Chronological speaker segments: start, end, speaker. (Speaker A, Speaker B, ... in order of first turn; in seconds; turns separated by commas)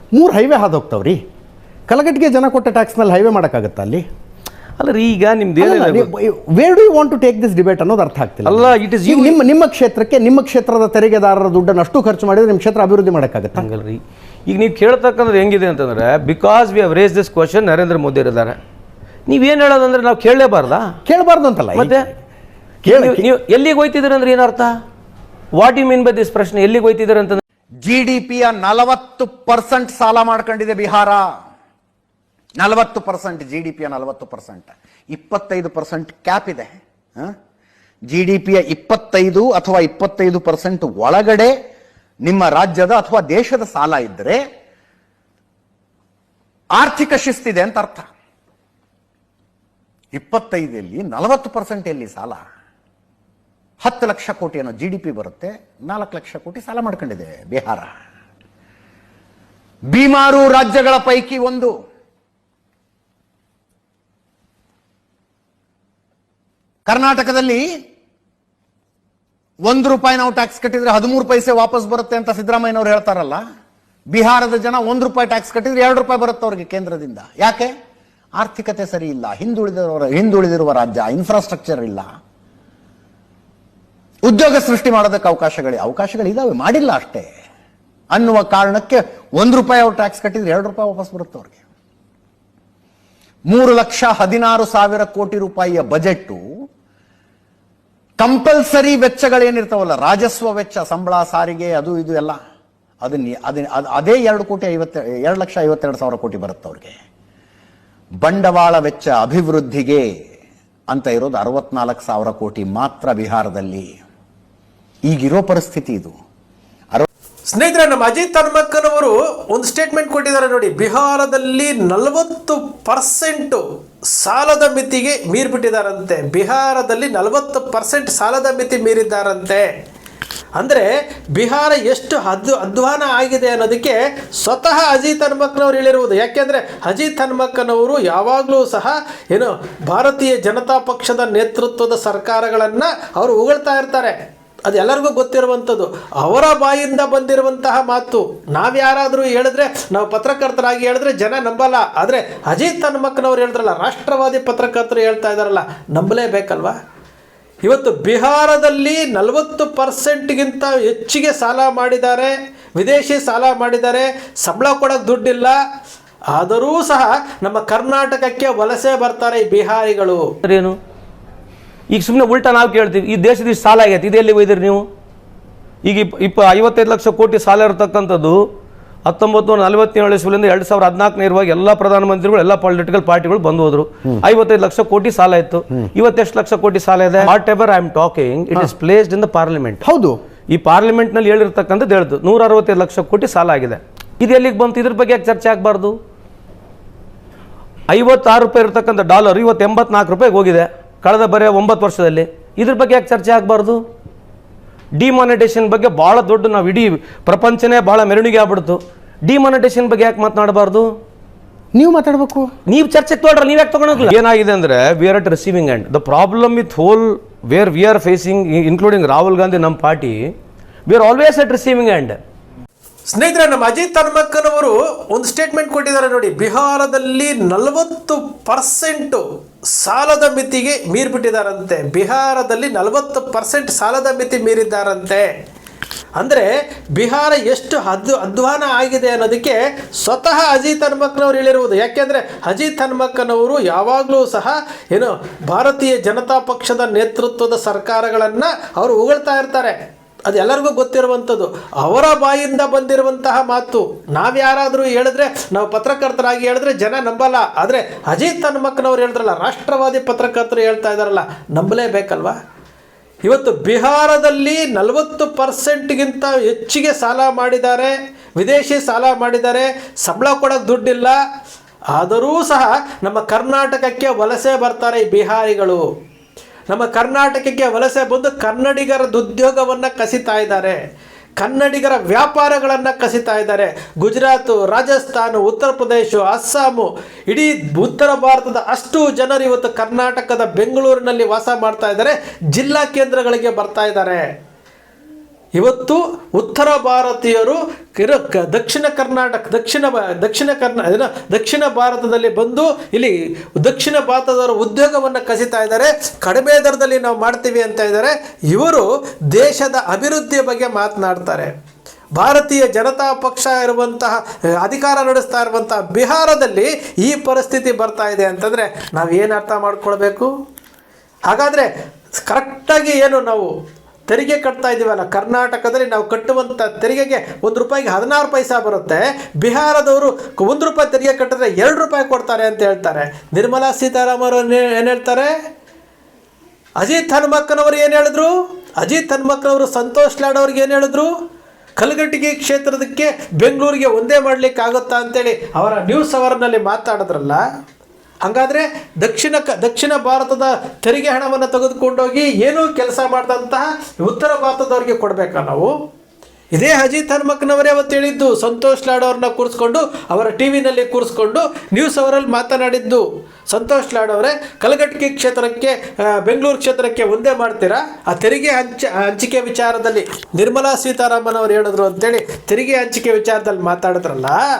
Speaker A: 0.1-1.1, Speaker A: 1.9-4.0, Speaker B: 2.9-3.9, Speaker C: 4.8-6.1, Speaker B: 5.6-6.0, Speaker A: 6.0-13.5, Speaker B: 6.9-7.3, Speaker B: 7.9-8.5, Speaker C: 8.4-9.4, Speaker B: 10.9-12.4, Speaker C: 13.5-18.6, Speaker C: 19.3-21.0, Speaker B: 21.1-22.1, Speaker A: 21.2-21.6, Speaker C: 21.7-22.1, Speaker C: 22.9-24.7, Speaker B: 22.9-23.2, Speaker C: 25.6-27.4, Speaker B: 27.8-31.3, Speaker B: 32.6-37.4, Speaker B: 38.1-41.5, Speaker B: 42.2-44.4, Speaker B: 46.7-48.0, Speaker B: 50.1-52.4, Speaker B: 53.8-57.9, Speaker B: 59.9-61.7, Speaker B: 66.9-67.6, Speaker B: 69.6-73.4, Speaker B: 74.1-77.7, Speaker B: 78.4-82.0, Speaker B: 84.2-87.3, Speaker B: 88.1-91.6, Speaker B: 93.5-96.4, Speaker B: 98.2-102.4, Speaker B: 103.0-106.9, Speaker B: 108.2-110.1, Speaker B: 110.9-113.9, Speaker B: 115.0-116.1, Speaker D: 117.5-123.6, Speaker D: 124.2-129.7, Speaker D: 130.6-144.2, Speaker D: 144.7-156.8, Speaker D: 157.7-165.6, Speaker D: 166.3-170.2, Speaker C: 170.4-170.8, Speaker C: 171.9-174.8, Speaker C: 175.8-178.4, Speaker C: 179.1-189.8, Speaker A: 189.8-190.2, Speaker C: 190.5-195.9, Speaker C: 197.9-203.8, Speaker C: 205.0-210.9, Speaker A: 211.8-212.5, Speaker B: 211.8-212.1, Speaker C: 212.7-220.2, Speaker C: 220.8-222.2, Speaker D: 223.1-235.3, Speaker D: 236.2-249.8, Speaker D: 250.3-262.4, Speaker D: 263.2-271.1, Speaker D: 271.9-275.8, Speaker D: 276.7-280.8, Speaker D: 281.4-294.2, Speaker D: 295.6-311.5, Speaker D: 312.1-320.3, Speaker D: 321.3-321.7, Speaker D: 322.2-323.5, Speaker D: 324.1-335.3, Speaker D: 336.8-341.1, Speaker D: 341.8-347.4, Speaker D: 348.2-355.7, Speaker D: 356.5-374.4